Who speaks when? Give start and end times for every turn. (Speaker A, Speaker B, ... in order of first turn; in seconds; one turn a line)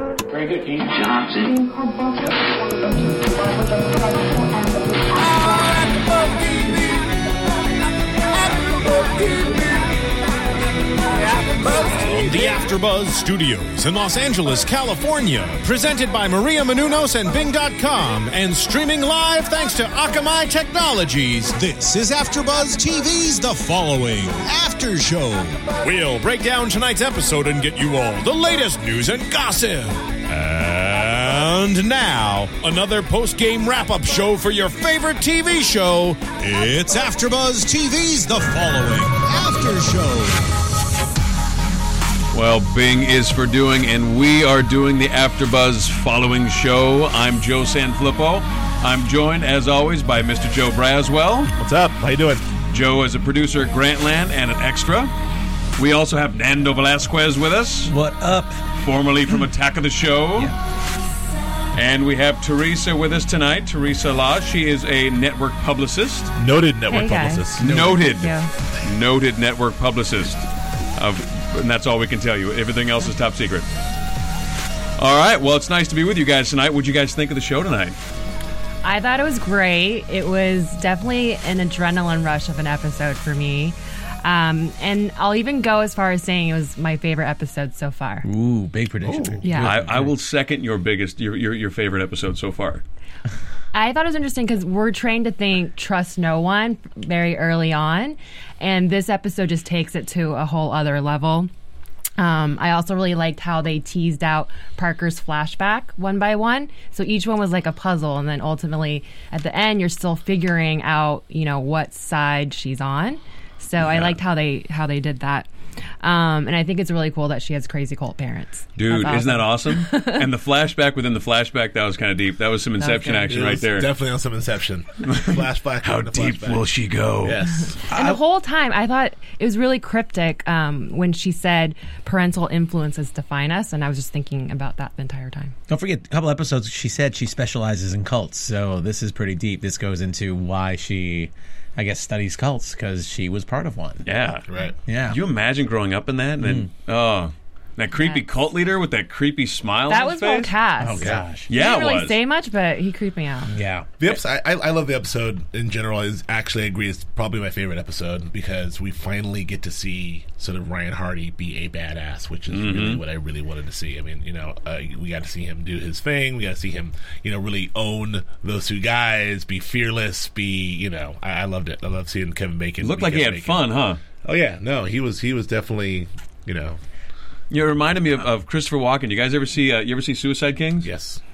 Speaker A: 9.2-9.5
Speaker A: 11.7-40.5
Speaker B: 42.3-51.5
Speaker C: 51.6-52.5
Speaker B: 52.7-55.1
Speaker B: 55.8-57.9
Speaker D: 57.9-58.6
Speaker B: 58.8-60.5
Speaker B: 61.7-66.3
Speaker C: 66.4-67.7
Speaker E: 66.9-68.5
Speaker B: 67.6-73.7
Speaker D: 67.6-68.1
Speaker B: 75.0-78.0
Speaker E: 78.8-88.3
Speaker D: 88.2-90.1
Speaker C: 89.0-89.8
Speaker E: 89.4-89.7
Speaker B: 89.6-92.8
Speaker E: 93.7-101.5
Speaker E: 102.2-115.5
Speaker C: 113.8-114.2
Speaker E: 116.0-120.3
Speaker B: 118.8-123.9
Speaker E: 122.8-123.3
Speaker C: 123.2-126.6
Speaker B: 125.0-127.4
Speaker C: 127.2-127.8
Speaker D: 127.9-128.2
Speaker E: 127.9-135.6
Speaker D: 135.7-144.1
Speaker B: 144.1-144.5
Speaker C: 144.5-144.8
Speaker D: 144.9-145.2
Speaker B: 145.1-150.5
Speaker D: 146.4-146.7
Speaker E: 149.9-153.5
Speaker D: 150.8-151.5
Speaker B: 151.5-152.2
Speaker D: 153.5-153.9
Speaker C: 154.0-173.6
Speaker B: 162.5-163.0
Speaker B: 172.8-174.0
Speaker C: 174.2-176.8
Speaker B: 177.5-180.9
Speaker C: 180.8-181.2